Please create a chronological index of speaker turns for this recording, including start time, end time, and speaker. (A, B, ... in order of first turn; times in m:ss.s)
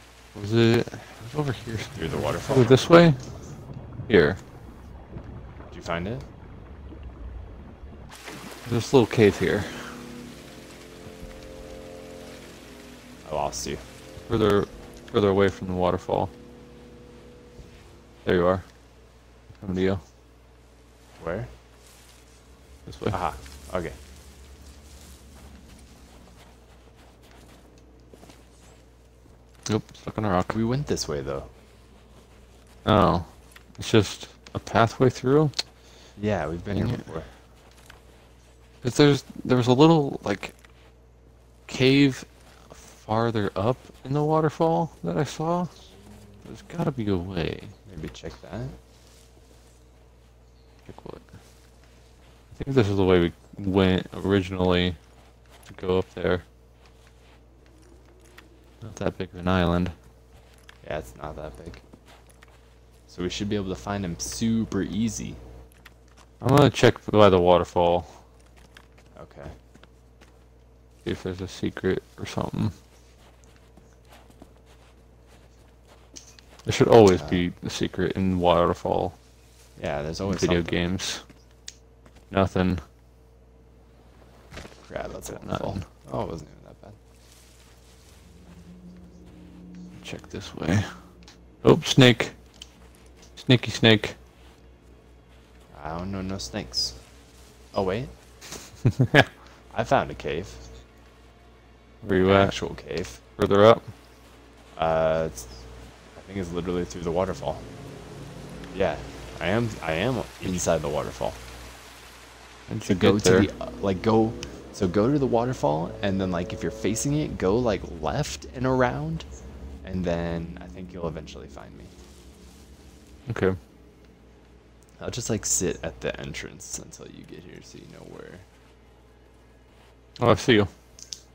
0:00.3-0:03.2 A
0:02.0-0:02.9 B
0:04.1-0:04.4 A
0:05.7-0:06.3 B
0:08.6-0:10.0 A
0:13.2-0:13.8 B
0:14.3-0:16.3 A
0:18.2-0:18.7 A
0:19.6-0:20.0 A
0:21.2-0:21.5 B
0:22.9-0:23.2 A
0:23.1-0:24.0 B
0:29.7-0:30.6 A
0:30.5-0:31.5 B
0:32.8-0:35.6 A
0:36.2-0:37.3 B
0:36.7-0:37.0 A
0:38.8-0:40.6 A
0:41.7-0:45.7 A
0:46.4-0:47.8 A
0:47.9-0:48.8 B
0:50.9-0:51.3 A
0:52.5-0:55.0 A
0:55.7-0:56.5 A
0:58.8-1:00.0 A
1:00.8-1:01.8 B
1:03.1-1:05.4 B
1:06.4-1:08.2 A
1:09.2-1:09.6 B
1:11.0-1:12.8 A
1:16.6-1:19.2 A
1:17.1-1:17.4 B
1:19.8-1:20.8 B
1:20.2-1:21.2 A
1:22.3-1:22.8 A
1:24.9-1:27.0 B
1:25.3-1:25.9 A
1:30.0-1:30.9 A
1:31.6-1:32.4 A
1:33.4-1:34.2 A
1:35.7-1:37.0 B
1:37.7-1:38.1 B
1:38.8-1:39.3 A
1:39.7-1:40.6 B
1:42.0-1:42.6 A
1:42.1-1:43.2 B
1:43.4-1:43.9 A
1:44.8-1:45.5 B
1:46.2-1:47.7 B
1:48.7-1:51.4 B
1:52.7-1:53.5 A
1:52.8-1:59.3 B
1:59.8-2:01.9 B
2:03.3-2:03.6 A
2:05.0-2:08.5 B
2:10.2-2:10.7 A